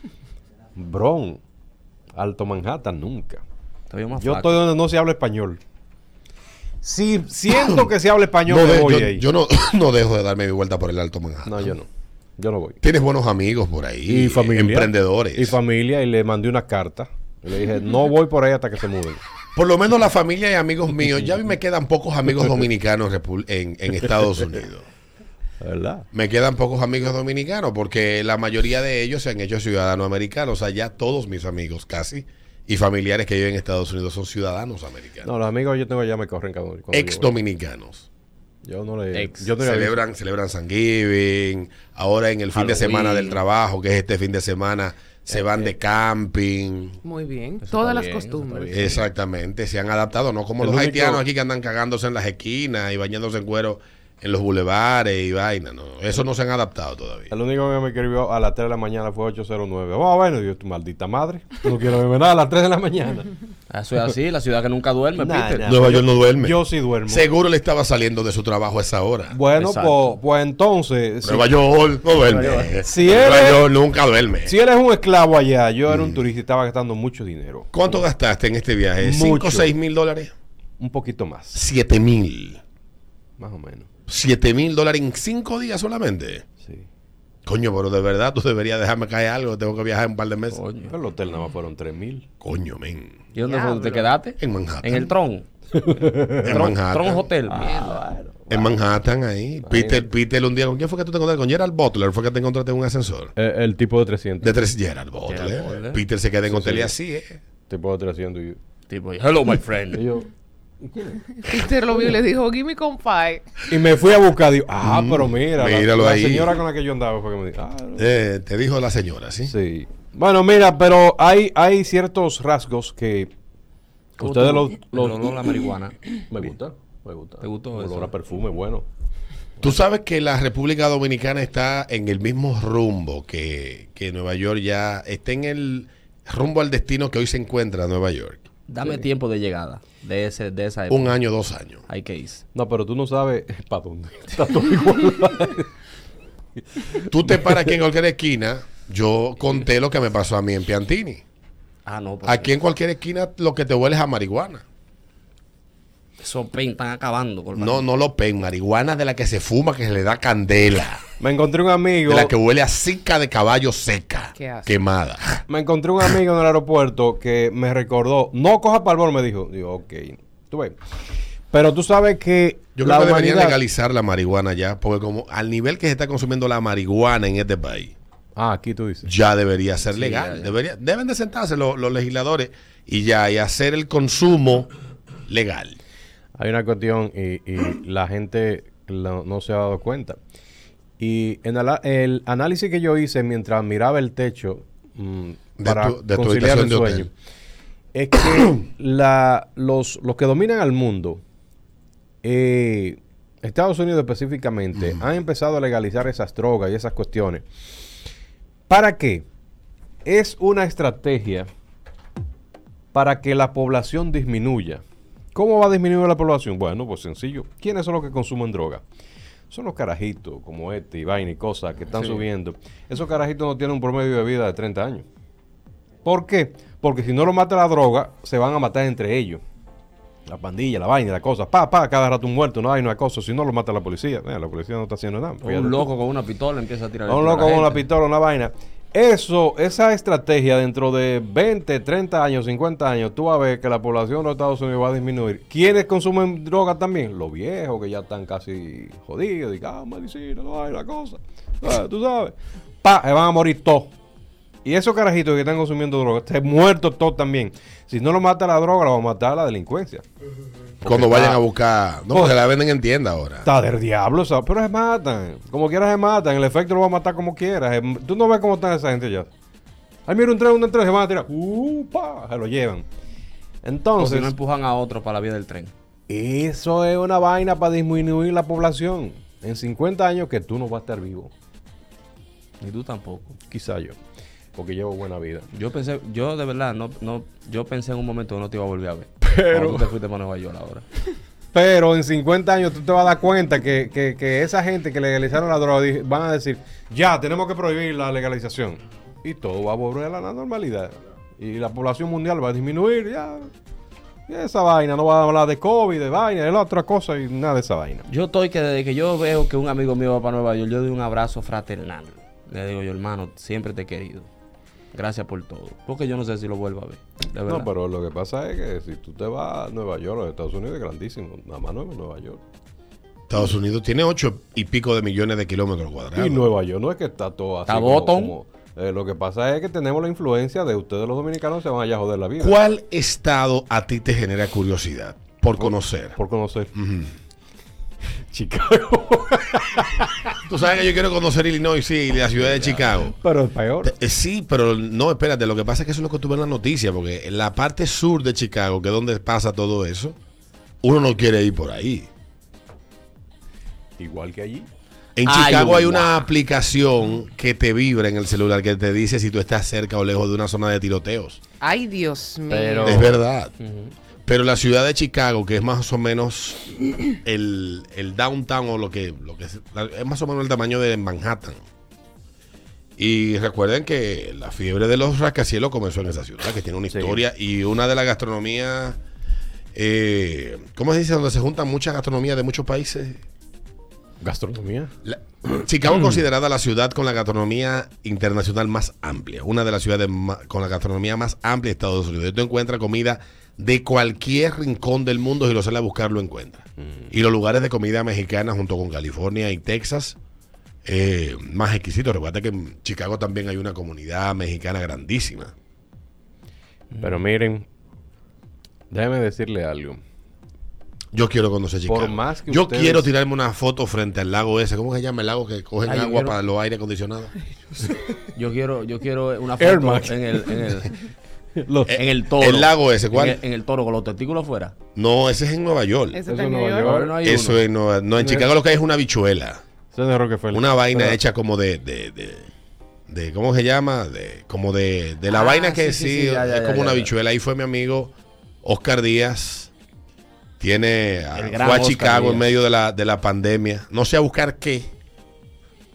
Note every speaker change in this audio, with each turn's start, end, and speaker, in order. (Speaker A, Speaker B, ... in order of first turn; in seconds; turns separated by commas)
Speaker A: 0.8-1.4, Speaker A: 2.1-3.4, Speaker B: 3.9-4.6, Speaker A: 4.1-5.6, Speaker A: 6.8-9.2, Speaker C: 7.5-7.9, Speaker C: 8.4-11.7, Speaker A: 11.4-12.8, Speaker C: 12.8-15.6, Speaker A: 14.1-19.2, Speaker C: 19.5-24.8, Speaker A: 25.6-26.1, Speaker C: 26.1-35.3, Speaker A: 35.2-37.3, Speaker C: 36.9-38.1, Speaker A: 38.6-40.0, Speaker B: 39.1-39.5, Speaker C: 39.6-47.0, Speaker B: 42.5-43.4, Speaker A: 45.3-45.7, Speaker D: 47.0-49.0, Speaker B: 47.6-49.0, Speaker C: 48.7-57.3, Speaker A: 50.6-51.2, Speaker A: 57.3-63.3, Speaker B: 63.7-65.8, Speaker A: 65.2-67.3, Speaker C: 65.7-69.4, Speaker A: 69.3-71.5, Speaker B: 69.5-70.1, Speaker C: 71.2-74.5, Speaker B: 72.2-72.8, Speaker A: 72.8-73.7, Speaker A: 74.4-77.7, Speaker C: 75.9-76.2, Speaker C: 77.7-80.3, Speaker A: 79.0-79.7, Speaker A: 80.8-81.6, Speaker C: 81.5-82.6, Speaker A: 83.4-83.9, Speaker C: 84.1-86.4, Speaker A: 86.6-86.8, Speaker C: 87.5-90.6, Speaker B: 90.5-90.9, Speaker A: 90.9-92.3, Speaker C: 92.4-93.2, Speaker B: 93.3-95.4, Speaker D: 93.4-94.1, Speaker C: 94.4-95.1, Speaker A: 95.7-96.7, Speaker B: 96.4-98.0, Speaker C: 96.4-97.3, Speaker A: 97.5-98.7, Speaker C: 98.5-103.3, Speaker A: 99.6-100.1, Speaker A: 103.3-104.6, Speaker C: 104.4-107.4, Speaker B: 105.2-106.0, Speaker A: 106.4-106.9, Speaker A: 107.7-108.6, Speaker B: 108.9-110.0, Speaker A: 109.9-110.3, Speaker A: 110.8-111.2, Speaker D: 111.3-113.4, Speaker A: 113.7-118.0, Speaker C: 114.8-116.6, Speaker C: 118.0-119.5, Speaker A: 119.5-123.3, Speaker A: 124.2-125.5, Speaker B: 124.2-126.0, Speaker A: 126.3-128.8, Speaker B: 127.4-128.1, Speaker C: 129.6-138.4, Speaker B: 138.7-141.2, Speaker C: 140.9-141.8, Speaker B: 141.9-142.4, Speaker A: 142.5-145.7, Speaker A: 146.7-147.6, Speaker C: 147.0-151.2, Speaker B: 151.8-152.5, Speaker C: 152.2-154.6, Speaker B: 156.2-157.8, Speaker C: 157.6-161.0, Speaker A: 161.2-162.3, Speaker C: 162.1-165.4, Speaker D: 164.3-164.8, Speaker A: 165.5-170.8, Speaker A: 171.5-173.6, Speaker C: 172.8-177.9, Speaker A: 178.3-179.1, Speaker C: 179.0-184.7, Speaker B: 179.8-180.5, Speaker C: 185.3-185.8, Speaker A: 186.4-190.2, Speaker A: 191.0-197.1, Speaker C: 195.6-197.1, Speaker A: 197.9-201.2, Speaker A: 202.2-207.4, Speaker A: 208.7-209.2, Speaker A: 210.0-211.5, Speaker A: 212.9-214.8, Speaker A: 215.3-218.8, Speaker A: 219.5-225.1, Speaker B: 221.9-222.2, Speaker A: 226.0-229.4, Speaker A: 230.2-235.8, Speaker B: 235.4-237.8, Speaker A: 237.1-253.9, Speaker A: 254.6-260.0, Speaker A: 260.8-261.4, Speaker C: 260.8-263.5, Speaker A: 262.1-262.4, Speaker A: 263.4-269.3, Speaker A: 270.1-272.9, Speaker A: 273.6-274.3, Speaker B: 274.0-275.7, Speaker A: 276.1-281.3, Speaker B: 282.6-283.3, Speaker A: 283.4-284.0, Speaker A: 284.5-285.5, Speaker B: 285.5-290.8, Speaker A: 289.2-289.9, Speaker A: 291.5-303.5, Speaker A: 304.3-308.1, Speaker B: 308.1-314.3, Speaker B: 314.9-317.7, Speaker A: 317.4-322.4, Speaker C: 323.3-326.5, Speaker A: 326.1-332.6, Speaker B: 327.7-328.3, Speaker C: 332.4-336.1, Speaker A: 335.6-336.7, Speaker C: 336.7-337.1, Speaker A: 338.3-340.3, Speaker C: 340.5-343.1, Speaker A: 342.5-343.9, Speaker C: 343.8-350.1, Speaker C: 350.8-352.1, Speaker A: 354.0-354.7, Speaker C: 355.2-361.4, Speaker B: 355.2-356.2, Speaker D: 361.6-363.1, Speaker A: 362.5-363.1, Speaker C: 362.8-363.5, Speaker B: 363.6-363.9, Speaker C: 364.2-371.6, Speaker C: 373.0-379.0, Speaker A: 376.9-377.2, Speaker C: 379.7-383.2, Speaker A: 384.2-384.9, Speaker C: 385.0-400.2, Speaker C: 400.8-405.5, Speaker A: 406.9-407.6, Speaker A: 408.9-410.0, Speaker C: 411.1-417.3, Speaker A: 411.9-413.1, Speaker B: 415.8-416.4, Speaker B: 418.3-421.0, Speaker A: 419.6-420.7, Speaker A: 421.6-422.0, Speaker C: 421.9-423.4, Speaker B: 421.9-424.7, Speaker C: 424.9-426.2, Speaker D: 426.1-426.9, Speaker A: 426.3-427.2, Speaker B: 426.8-427.6, Speaker C: 427.2-429.6, Speaker A: 428.2-428.5, Speaker A: 429.9-431.2, Speaker C: 430.5-432.5, Speaker C: 433.1-438.1, Speaker D: 435.3-435.8, Speaker B: 435.7-437.1, Speaker C: 438.6-439.7, Speaker C: 440.6-444.9, Speaker B: 441.3-442.5